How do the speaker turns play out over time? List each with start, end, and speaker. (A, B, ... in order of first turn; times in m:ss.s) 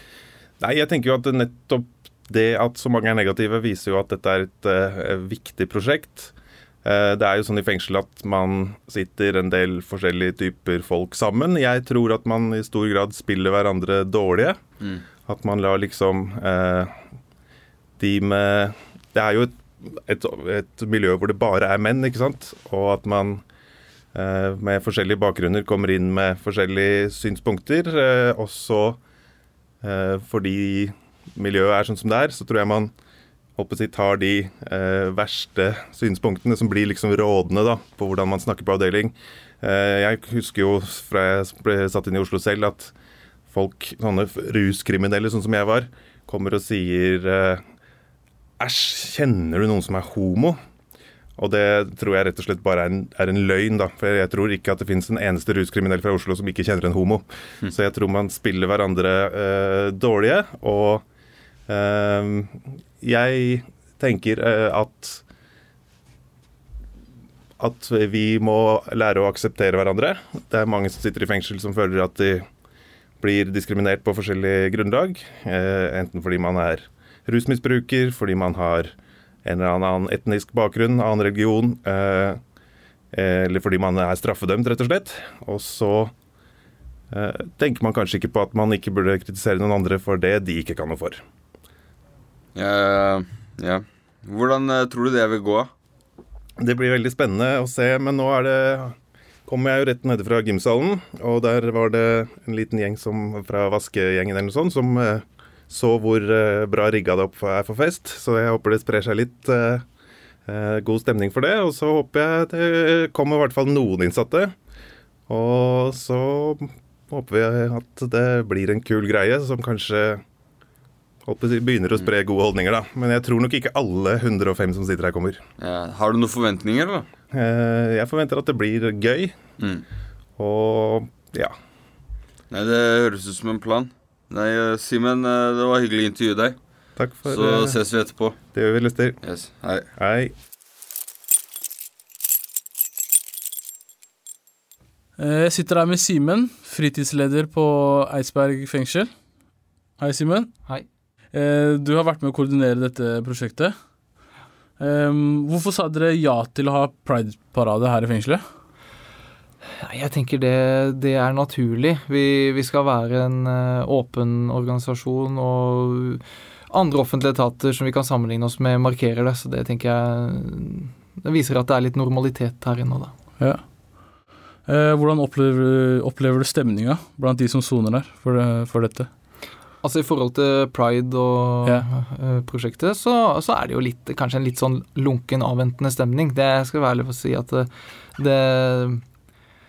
0:00.6-0:06.3 A
0:06.8-0:14.6 A
0:15.3-0:17.0 A
0:18.0-0:23.4 A
0:24.1-0:29.0 A
0:29.8-0:32.9 A
0:33.6-0:42.9 A
0:43.5-0:47.6 A
0:48.6-0:50.6 A
0:51.4-1:01.0 A
1:01.7-1:05.2 A
1:07.6-1:12.4 A
1:13.2-1:18.9 A
1:19.4-1:22.4 A
1:23.1-1:26.1 A
1:27.1-1:31.2 A
1:32.6-1:35.7 B
1:36.6-1:49.9 A
1:50.4-1:54.6 A
1:55.3-2:00.2 A
2:01.2-2:05.4 A
2:05.6-2:07.1 B
2:07.3-2:09.4 A
2:09.6-2:09.8 B
2:10.4-2:11.5 A
2:12.5-2:16.6 B
2:17.0-2:17.9 A
2:17.3-2:18.4 B
2:18.5-2:19.2 A
2:19.2-2:19.9 B
2:20.0-2:20.3 A
2:25.2-2:29.1 C
2:30.0-2:30.6 C
2:31.3-2:33.8 C
2:34.8-2:38.4 C
2:39.8-2:53.1 D
2:53.4-2:59.1 C
2:59.8-3:09.0 D